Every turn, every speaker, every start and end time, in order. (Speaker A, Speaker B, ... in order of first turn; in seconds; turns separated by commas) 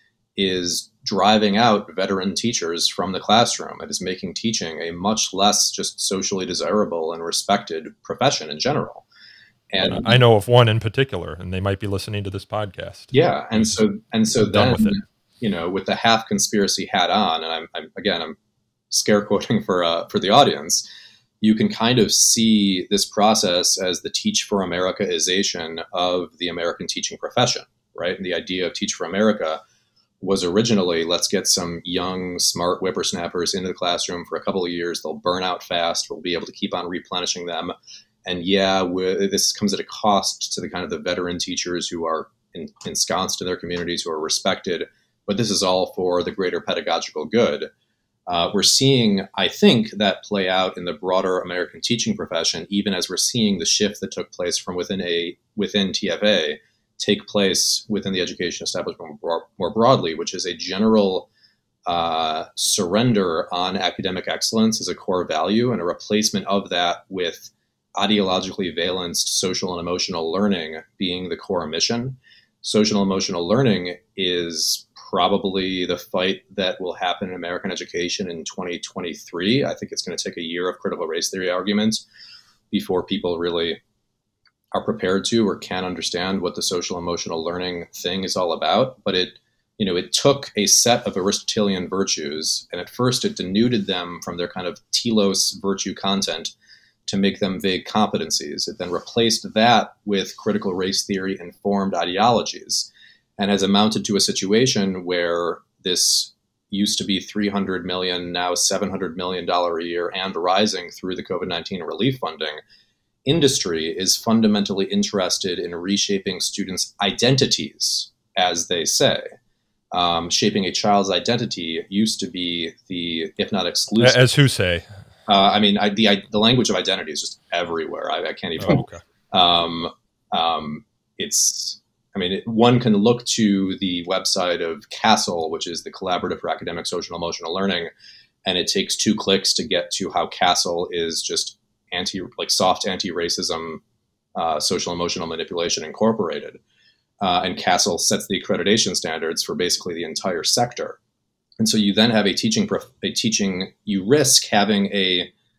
Speaker A: 0.4-9.1, Speaker A: 9.7-10.1, Speaker B: 9.8-13.8, Speaker A: 13.1-18.4, Speaker B: 14.4-14.9, Speaker A: 18.9-20.9, Speaker A: 21.4-29.6, Speaker A: 30.2-37.7, Speaker A: 38.2-47.7, Speaker A: 48.3-61.3, Speaker A: 61.9-82.0, Speaker A: 82.7-83.8, Speaker A: 84.7-96.5, Speaker A: 97.1-112.6, Speaker A: 113.2-119.3, Speaker A: 119.9-124.2, Speaker B: 124.0-124.8, Speaker A: 125.3-137.9, Speaker B: 128.6-129.0, Speaker A: 138.4-143.8, Speaker A: 144.3-146.6, Speaker A: 147.2-151.0, Speaker A: 151.6-155.3